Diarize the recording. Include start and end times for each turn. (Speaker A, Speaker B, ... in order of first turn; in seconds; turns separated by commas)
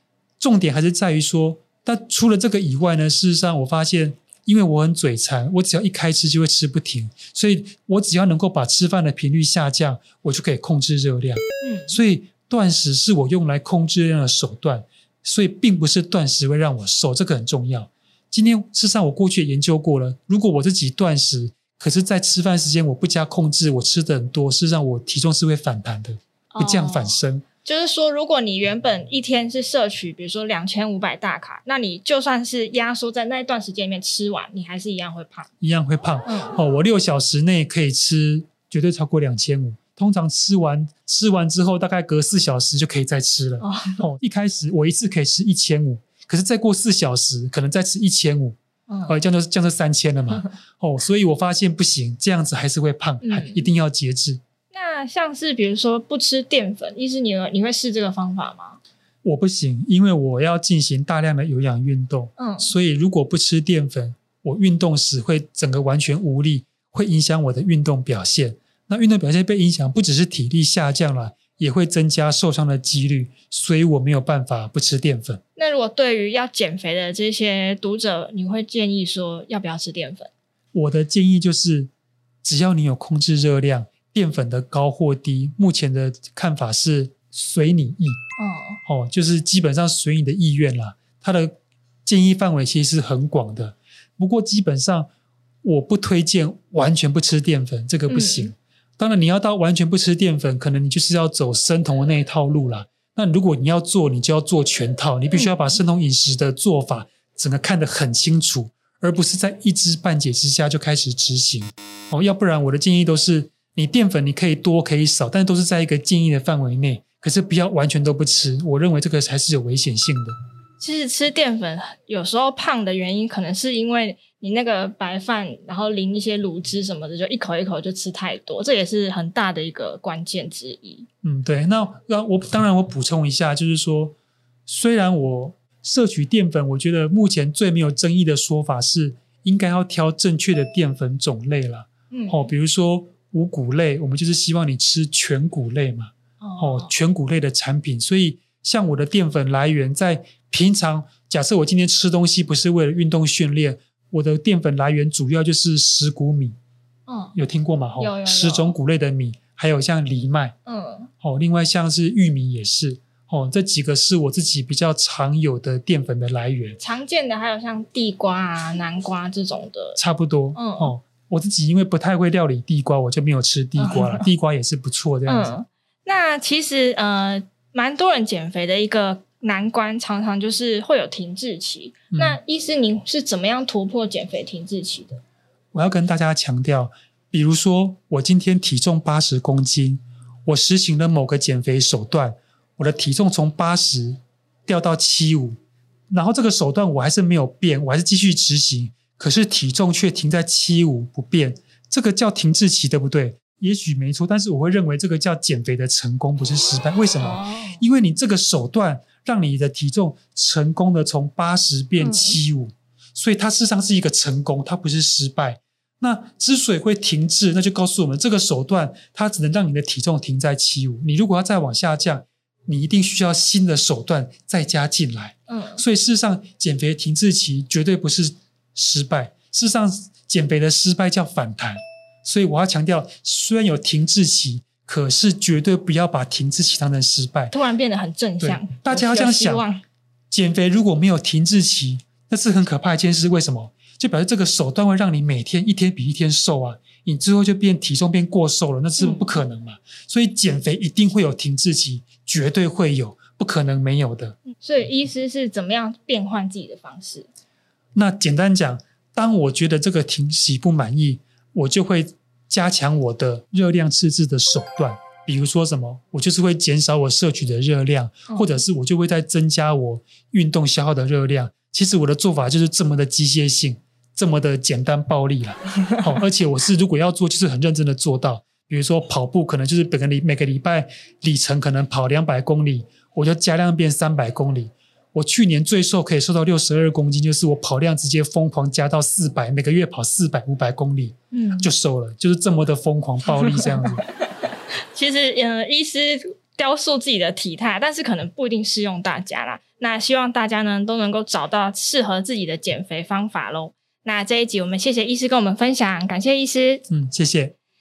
Speaker A: 0.4-27.5, Speaker B: 11.6-11.9, Speaker B: 26.5-35.5, Speaker A: 35.6-54.4, Speaker B: 36.3-36.6, Speaker B: 43.6-44.0, Speaker B: 48.9-49.2, Speaker B: 53.2-53.7, Speaker B: 54.7-58.8, Speaker A: 59.2-75.4, Speaker B: 62.4-62.7, Speaker B: 75.6-80.3, Speaker A: 80.7-81.9, Speaker A: 82.4-88.2, Speaker B: 88.4-88.8, Speaker A: 88.9-91.5, Speaker A: 92.1-95.1, Speaker A: 95.6-120.4, Speaker B: 98.1-98.5, Speaker B: 120.8-131.1, Speaker A: 131.2-134.2, Speaker A: 134.7-156.6, Speaker B: 142.1-142.5, Speaker B: 146.4-146.9, Speaker B: 157.1-157.3, Speaker A: 157.3-160.6, Speaker B: 158.0-158.7, Speaker B: 160.7-161.1, Speaker A: 161.2-166.8, Speaker B: 166.8-170.0, Speaker A: 170.0-175.6, Speaker B: 170.6-170.9, Speaker B: 173.8-174.3, Speaker B: 175.3-185.2, Speaker A: 182.1-182.4, Speaker A: 185.7-195.6, Speaker A: 196.1-237.5, Speaker B: 207.2-207.8, Speaker B: 212.0-212.4, Speaker B: 225.5-225.8, Speaker B: 237.5-239.8, Speaker A: 238.4-239.7, Speaker A: 240.3-254.4, Speaker B: 249.0-249.3, Speaker B: 254.5-257.3, Speaker A: 257.9-294.0, Speaker B: 268.3-268.5, Speaker B: 291.3-291.7, Speaker B: 293.4-294.0, Speaker B: 294.9-306.8, Speaker A: 306.9-307.5